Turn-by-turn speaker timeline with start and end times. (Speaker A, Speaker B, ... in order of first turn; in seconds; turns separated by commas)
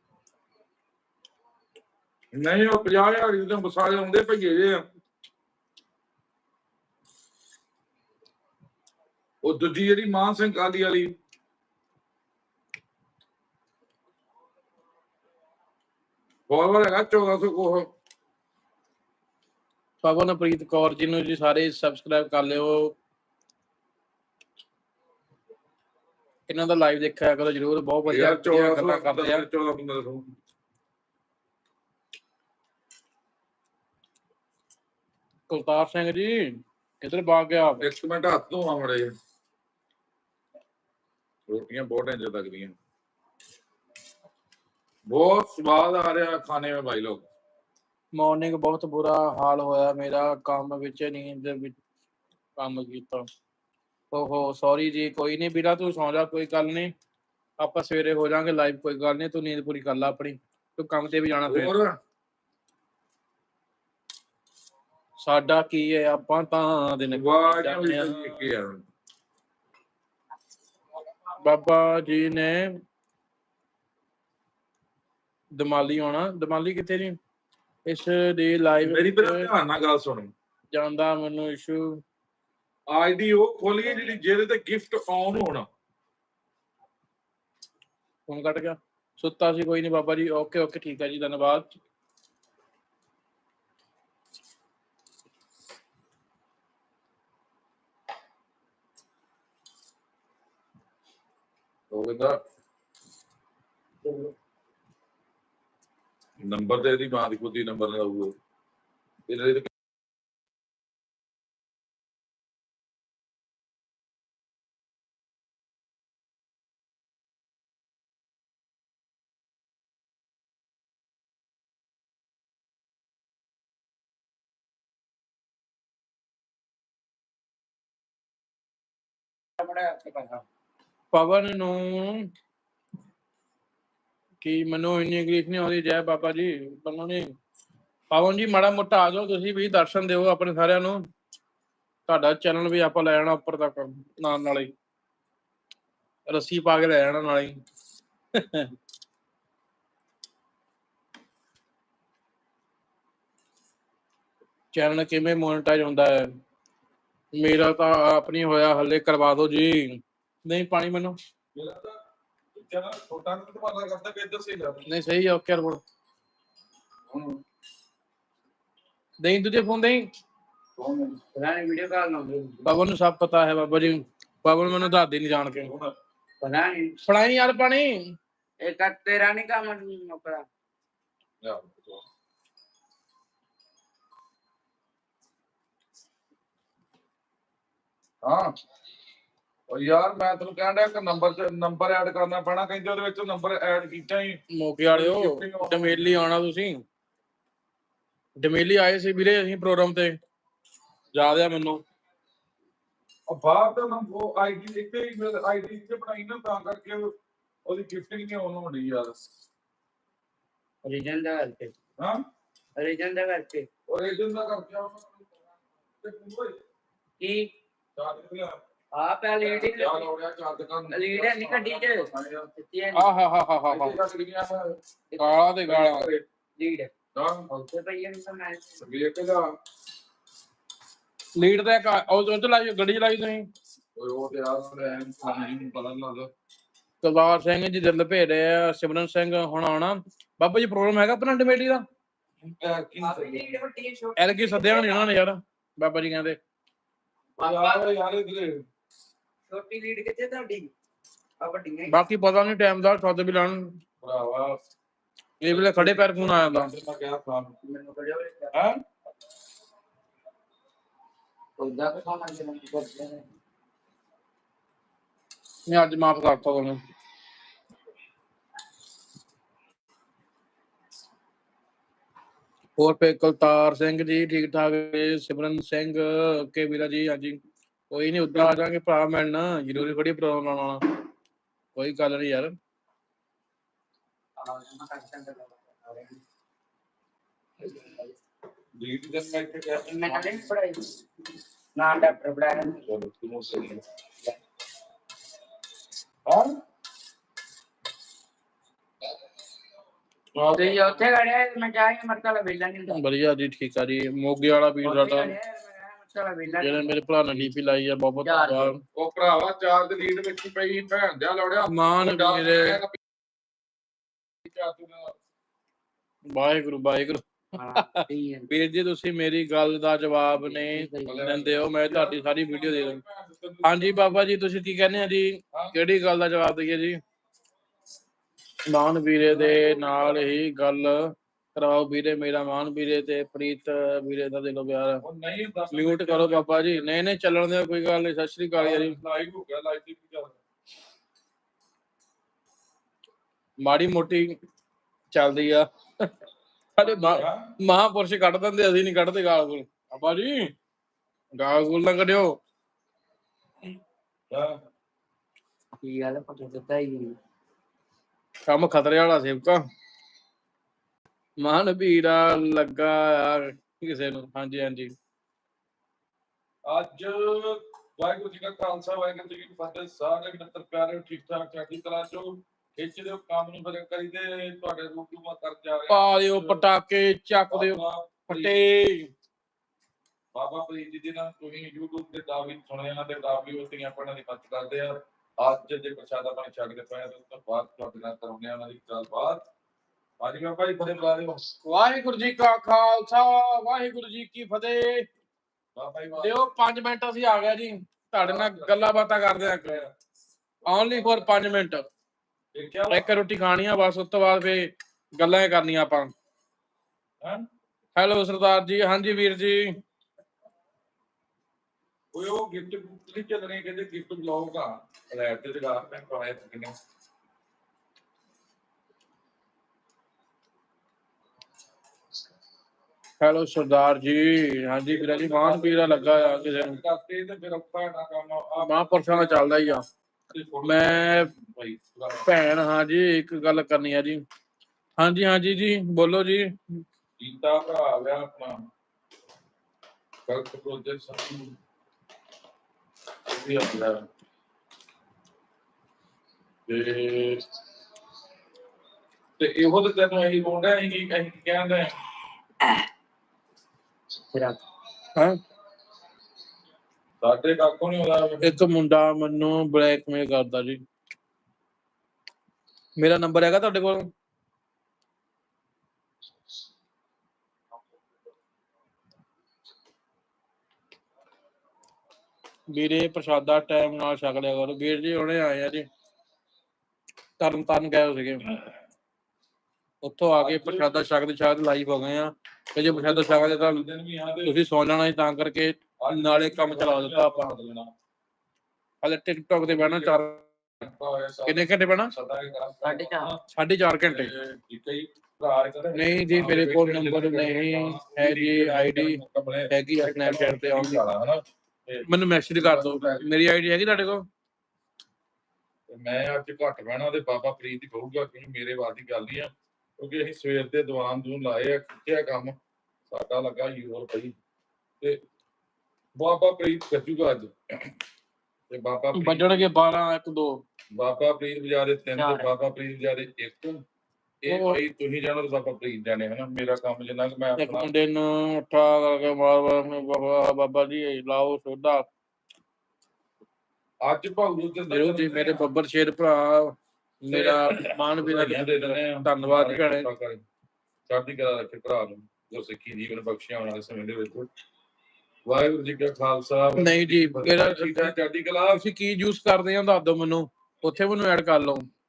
Speaker A: 2.3-4.8, Speaker A: 9.4-11.2, Speaker A: 16.5-17.9, Speaker B: 20.0-22.9, Speaker B: 26.5-29.4, Speaker A: 28.1-30.3, Speaker B: 35.5-37.8, Speaker A: 37.8-39.1, Speaker A: 41.5-42.8, Speaker A: 45.1-47.3, Speaker B: 48.1-51.8, Speaker B: 52.6-53.3, Speaker B: 54.1-56.9, Speaker B: 57.6-61.7, Speaker A: 61.5-62.0, Speaker B: 65.2-68.4, Speaker A: 67.1-68.8, Speaker B: 71.4-72.8, Speaker B: 75.5-77.2, Speaker B: 77.9-79.5, Speaker A: 78.8-80.3, Speaker B: 80.7-82.0, Speaker A: 82.9-85.7, Speaker B: 88.3-91.7, Speaker A: 101.9-102.4, Speaker C: 104.0-104.3, Speaker A: 106.4-108.3, Speaker A: 109.3-109.7, Speaker C: 129.6-130.4, Speaker B: 131.1-132.3, Speaker B: 134.4-137.3, Speaker B: 138.1-141.0, Speaker B: 142.1-144.7, Speaker B: 146.3-147.6, Speaker B: 148.3-148.7, Speaker B: 154.7-156.3, Speaker B: 157.3-161.2, Speaker A: 161.5-162.0, Speaker A: 162.6-164.9, Speaker B: 164.9-165.8, Speaker A: 167.1-167.4, Speaker B: 169.2-170.1, Speaker A: 170.8-171.2, Speaker C: 171.3-172.7, Speaker B: 172.7-175.7, Speaker A: 175.6-175.9, Speaker C: 176.4-177.0, Speaker B: 177.1-178.1, Speaker C: 178.6-180.4, Speaker A: 181.4-182.0, Speaker A: 188.2-188.5, Speaker A: 189.7-196.2, Speaker B: 194.5-196.8, Speaker B: 198.4-200.2, Speaker B: 201.1-201.8, Speaker A: 203.3-207.1, Speaker A: 207.7-209.2, Speaker C: 210.8-211.7, Speaker A: 212.0-212.2, Speaker C: 212.8-213.7, Speaker A: 213.9-216.6, Speaker C: 217.2-217.5, Speaker A: 218.0-218.6, Speaker C: 218.9-220.1, Speaker A: 219.4-222.5, Speaker C: 220.9-223.1, Speaker B: 222.9-224.0, Speaker A: 223.7-224.8, Speaker C: 225.1-225.4, Speaker B: 225.2-226.1, Speaker A: 225.7-226.2, Speaker C: 226.6-226.9, Speaker A: 227.2-227.5, Speaker C: 227.5-228.8, Speaker A: 228.8-229.5, Speaker B: 231.4-233.5, Speaker A: 234.0-236.3, Speaker B: 237.0-241.8, Speaker A: 242.4-243.6, Speaker C: 243.0-245.1, Speaker B: 244.2-246.4, Speaker A: 247.4-248.6, Speaker C: 247.4-247.9, Speaker C: 249.5-250.7, Speaker C: 251.4-252.0, Speaker B: 251.9-253.7, Speaker A: 254.0-254.6, Speaker B: 255.4-256.7, Speaker A: 255.5-257.6, Speaker C: 257.6-258.6, Speaker A: 258.5-258.8, Speaker C: 261.6-263.2, Speaker B: 265.7-266.8, Speaker B: 272.8-280.8, Speaker B: 281.8-282.6, Speaker C: 284.4-286.2, Speaker C: 287.6-288.1, Speaker A: 288.8-290.5, Speaker C: 289.9-291.0, Speaker C: 291.8-292.9, Speaker A: 292.7-293.8, Speaker A: 296.3-296.6, Speaker A: 300.3-301.0, Speaker C: 300.6-303.0, Speaker B: 302.9-305.4, Speaker C: 304.8-307.0, Speaker B: 306.6-308.8, Speaker C: 308.2-308.7, Speaker A: 308.9-313.0, Speaker B: 311.7-312.8, Speaker A: 314.4-315.2, Speaker B: 316.3-317.2, Speaker C: 317.5-318.5, Speaker B: 317.8-323.0, Speaker C: 320.4-321.3, Speaker A: 321.1-324.2, Speaker B: 323.6-327.0, Speaker B: 328.7-335.0, Speaker A: 329.2-330.4, Speaker A: 335.0-336.9, Speaker B: 335.7-339.0, Speaker A: 338.6-340.4, Speaker B: 343.6-344.4, Speaker B: 345.1-346.1, Speaker B: 346.8-350.5, Speaker A: 346.8-347.5, Speaker B: 351.3-352.4, Speaker A: 354.3-354.6, Speaker C: 355.8-357.2, Speaker B: 358.5-359.6, Speaker B: 361.4-364.9, Speaker A: 366.7-376.6, Speaker B: 375.9-379.1, Speaker A: 377.5-378.6, Speaker A: 380.3-389.4, Speaker A: 390.2-391.4, Speaker B: 391.5-395.1, Speaker A: 395.8-396.4, Speaker B: 396.2-399.9, Speaker A: 398.2-399.9, Speaker B: 400.7-401.9, Speaker A: 400.7-401.2, Speaker A: 402.5-403.1, Speaker B: 402.9-406.1, Speaker A: 407.2-407.5, Speaker B: 408.0-409.8, Speaker A: 412.1-416.8, Speaker B: 423.2-426.8, Speaker A: 424.9-429.8, Speaker B: 428.6-429.9, Speaker A: 430.3-432.3, Speaker B: 430.6-431.3, Speaker B: 432.2-434.2, Speaker B: 435.0-436.8, Speaker A: 437.2-438.6, Speaker A: 440.3-441.6, Speaker A: 443.3-444.1, Speaker A: 446.7-447.5, Speaker A: 449.4-452.0, Speaker C: 454.3-454.6, Speaker A: 457.2-458.5, Speaker B: 458.4-460.8, Speaker B: 463.0-464.1, Speaker B: 472.7-475.9, Speaker B: 477.4-478.5, Speaker B: 480.0-483.8, Speaker A: 480.4-481.1, Speaker A: 482.8-484.6, Speaker B: 484.4-487.5, Speaker A: 486.0-487.9, Speaker B: 489.0-490.4, Speaker A: 489.7-490.2, Speaker A: 490.8-493.4, Speaker B: 491.5-492.1, Speaker C: 492.8-493.3, Speaker B: 493.6-494.3, Speaker A: 494.1-503.3, Speaker B: 495.9-499.2, Speaker B: 499.7-501.0, Speaker B: 502.1-504.3, Speaker A: 505.9-512.6, Speaker A: 513.1-514.3, Speaker A: 516.2-518.0, Speaker A: 518.7-519.7, Speaker B: 519.1-520.6, Speaker A: 520.9-523.8, Speaker C: 522.2-522.5, Speaker A: 524.4-527.9, Speaker B: 524.5-524.8, Speaker B: 527.6-532.1, Speaker A: 534.0-535.7, Speaker B: 534.9-540.1, Speaker A: 537.3-540.4, Speaker A: 541.1-544.5, Speaker A: 545.5-548.8, Speaker B: 546.8-548.1, Speaker B: 548.7-551.9